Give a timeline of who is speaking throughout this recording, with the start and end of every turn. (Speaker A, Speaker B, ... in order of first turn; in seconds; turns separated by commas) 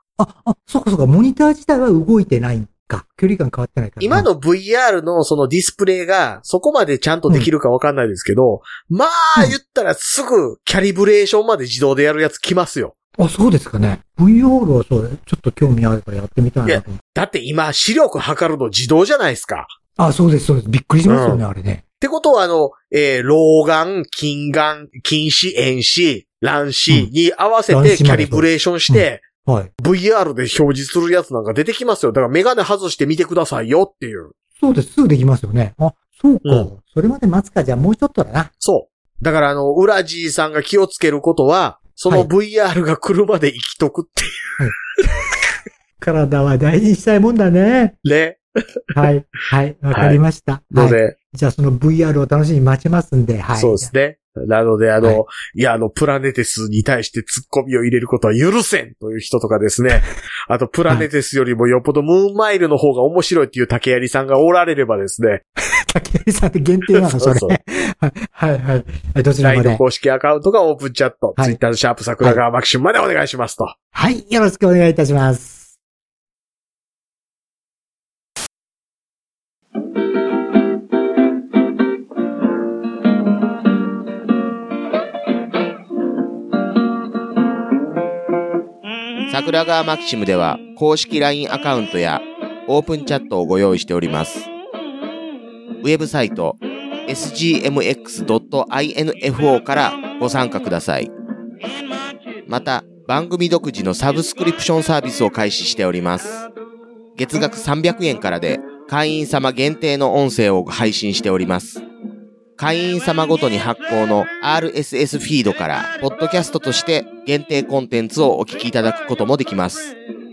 Speaker A: 0.2-4.3, Speaker B: 4.0-12.9, Speaker A: 13.2-17.0, Speaker B: 16.6-19.7, Speaker A: 20.0-21.8, Speaker B: 21.1-21.4, Speaker B: 22.0-29.3, Speaker A: 27.7-29.7, Speaker B: 29.8-34.3, Speaker A: 34.6-38.5, Speaker B: 36.4-36.7, Speaker B: 38.6-44.6, Speaker A: 46.0-48.0, Speaker B: 48.0-48.9, Speaker A: 48.9-53.9, Speaker B: 49.9-50.2, Speaker B: 50.7-51.1, Speaker B: 53.6-65.4, Speaker A: 65.9-69.8, Speaker B: 67.1-67.6, Speaker B: 69.4-73.8, Speaker A: 73.9-75.7, Speaker C: 89.3-94.5, Speaker C: 95.8-101.1, Speaker C: 102.5-106.5, Speaker C: 107.2-111.8, Speaker C: 112.6-120.0